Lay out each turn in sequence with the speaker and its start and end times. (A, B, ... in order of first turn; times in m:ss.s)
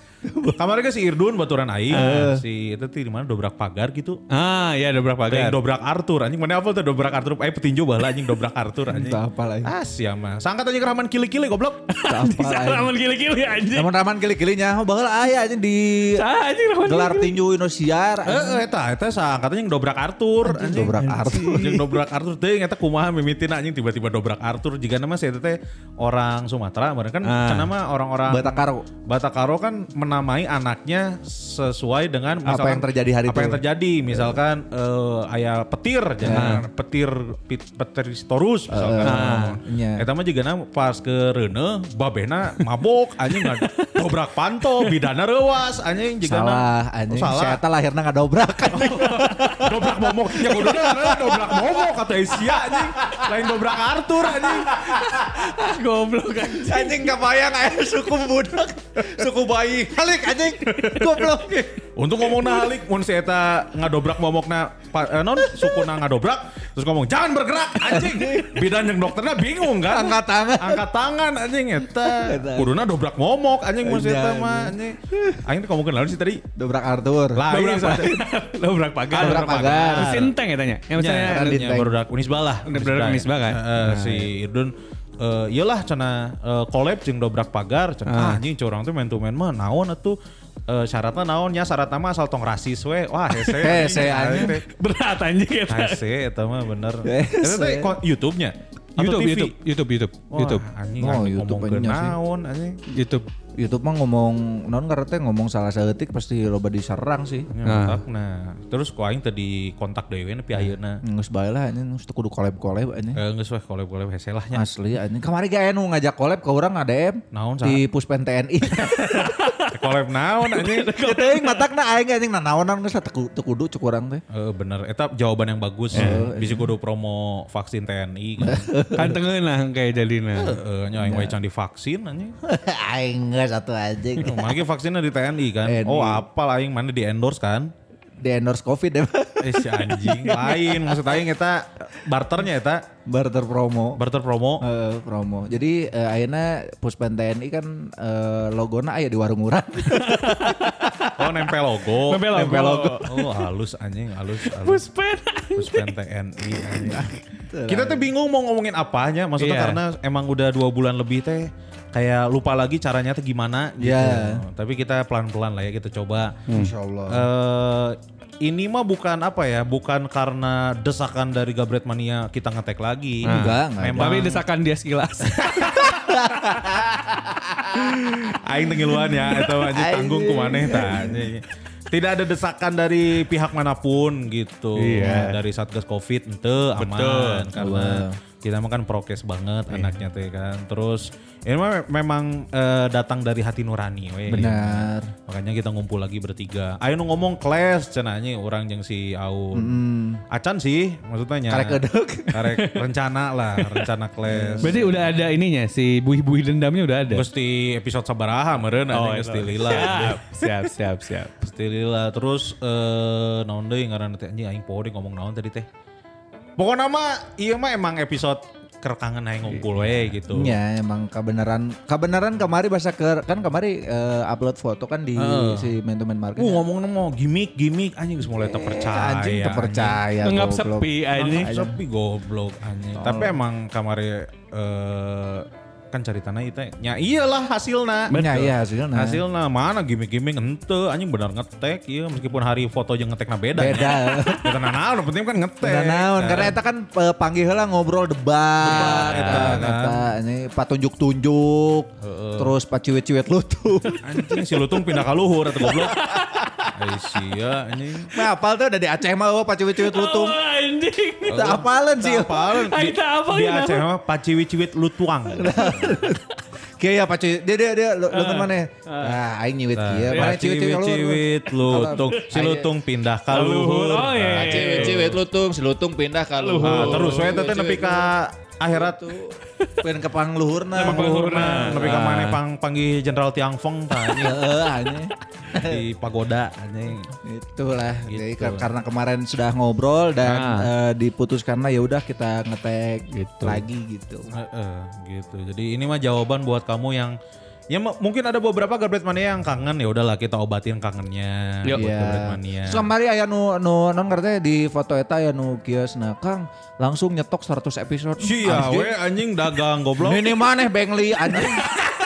0:00.2-0:00.6 A
0:00.5-0:04.2 B
0:01.9-0:02.4 A
0:01.9-0:02.3 C
0:04.3-0:05.6 C
0:05.3-0:11.8 B
0:08.9-0:09.7 A
0:11.9-0:13.9 C
0:12.0-0:12.9 A
0:13.7-0:16.2 A
0:16.1-0:17.4 C
0:16.8-0:18.6 A
0:18.2-0:47.6 B
0:20.4-0:21.7 A
0:21.0-0:21.9 C
0:27.2-0:27.7 C
0:28.3-0:28.8 A
0:32.4-0:33.6 A
0:36.2-0:36.6 A
0:36.3-0:36.6 C
0:38.7-0:40.0 A
0:39.0-0:39.6 C
0:43.4-0:44.0 C
0:46.2-0:53.4 A
0:48.8-0:49.3 C
0:48.9-0:54.9 B
0:54.4-0:55.4 A
0:54.9-0:57.1 C
0:56.5-1:01.8 A
1:00.7-1:01.2 C
1:02.0-1:16.4 B
1:07.8-1:08.6 A
1:09.9-1:10.8 A
1:12.0-1:12.7 A
1:13.8-1:15.4 A
1:16.6-1:17.4 A
1:17.3-1:18.2 B
1:17.5-1:21.7 C
1:19.1-1:20.3 B
1:19.2-1:20.1 A
1:21.0-1:34.6 B
1:21.2-1:21.9 A
1:22.6-1:24.3 C
1:28.1-1:28.4 C
1:33.3-1:36.0 C
1:33.6-1:34.6 A
1:35.7-1:39.5 B
1:37.0-1:38.0 A
1:39.0-1:40.6 C
1:40.3-1:42.8 B
1:41.0-1:42.2 A
1:42.9-1:43.2 C
1:43.6-1:47.5 A
1:47.5-1:51.0 B
1:47.6-1:48.0 C
1:50.6-1:53.2 A
1:53.1-1:54.6 B
1:54.5-1:59.3 A
1:57.3-1:57.8 B
1:58.8-1:59.8 C
1:59.7-2:00.9 B
2:00.4-2:01.7 C
2:01.0-2:04.2 A
2:04.3-2:08.7 B
2:05.9-2:06.7 A
2:05.9-2:06.2 C
2:08.4-2:09.2 A
2:09.0-2:10.6 C
2:10.4-2:12.4 B
2:11.0-2:11.3 A
2:12.4-2:14.5 A
2:14.2-2:17.7 B
2:15.6-2:16.2 A
2:18.2-2:21.0 A
2:19.4-2:22.8 B
2:23.1-2:24.0 A
2:24.0-2:24.6 B
2:24.6-2:30.8 A
2:29.9-2:31.4 C
2:31.2-2:34.9 B
2:32.0-2:33.5 C
2:34.4-2:35.9 C
2:35.5-2:37.1 B
2:36.5-2:37.1 C
2:37.3-2:38.1 A
2:37.7-2:46.5 B
2:39.4-2:39.8 C
2:43.8-2:44.4 A
2:46.5-2:47.2 A
2:47.1-2:54.4 B
2:53.2-2:54.4 A
2:53.2-2:55.8 C
2:55.4-2:55.9 B
2:55.4-2:58.2 A
2:58.2-3:24.9 B
2:59.4-3:01.2 A
3:04.8-3:05.4 C
3:06.8-3:07.5 C
3:07.6-3:08.2 A
3:09.7-3:10.0 C
3:14.3-3:15.1 A
3:19.5-3:20.2 A
3:21.5-3:22.4 A
3:22.5-3:22.8 C
3:23.6-3:23.9 C
3:24.3-3:24.9 A
3:24.6-3:27.3 C
3:27.1-3:30.7 B
3:28.9-3:31.3 C
3:31.4-3:35.7 B
3:36.6-3:40.6 B
3:39.5-3:40.1 C
3:40.3-3:46.6 A
3:45.2-3:45.7 B
3:46.4-3:50.0 B
3:48.4-3:51.8 A
3:50.2-3:51.6 C
3:51.1-4:06.6 B
3:53.0-3:53.4 A
3:58.1-3:59.2 A
4:03.5-4:04.5 A
4:05.6-4:14.0 A
4:08.6-4:10.0 B
4:08.7-4:09.6 C
4:12.0-4:12.5 B
4:14.0-4:16.0 B
4:15.8-4:16.4 C
4:16.0-4:16.6 A
4:16.7-4:18.1 B
4:18.1-4:20.4 A
4:19.8-4:21.6 C
4:21.2-4:26.0 B
4:21.3-4:22.4 A
4:22.3-4:23.8 C
4:25.3-4:26.2 A
4:26.8-4:32.7 A
4:28.1-4:29.2 C
4:29.7-4:35.2 B
4:30.1-4:30.4 C
4:31.8-4:32.2 C
4:33.3-4:35.1 C
4:34.3-4:38.1 A
4:36.4-4:37.4 C
4:36.6-4:39.1 B
4:38.7-4:41.6 A
4:40.7-4:42.4 C
4:40.8-4:44.4 B
4:44.1-4:45.8 A
4:45.5-4:47.1 B
4:47.2-4:54.3 A
4:48.0-4:48.7 B
4:50.2-4:50.7 C
4:53.1-4:53.6 C
4:54.3-4:57.2 B
4:57.7-5:02.9 B
5:01.7-5:09.0 A
5:08.2-5:10.4 B
5:10.0-5:11.8 A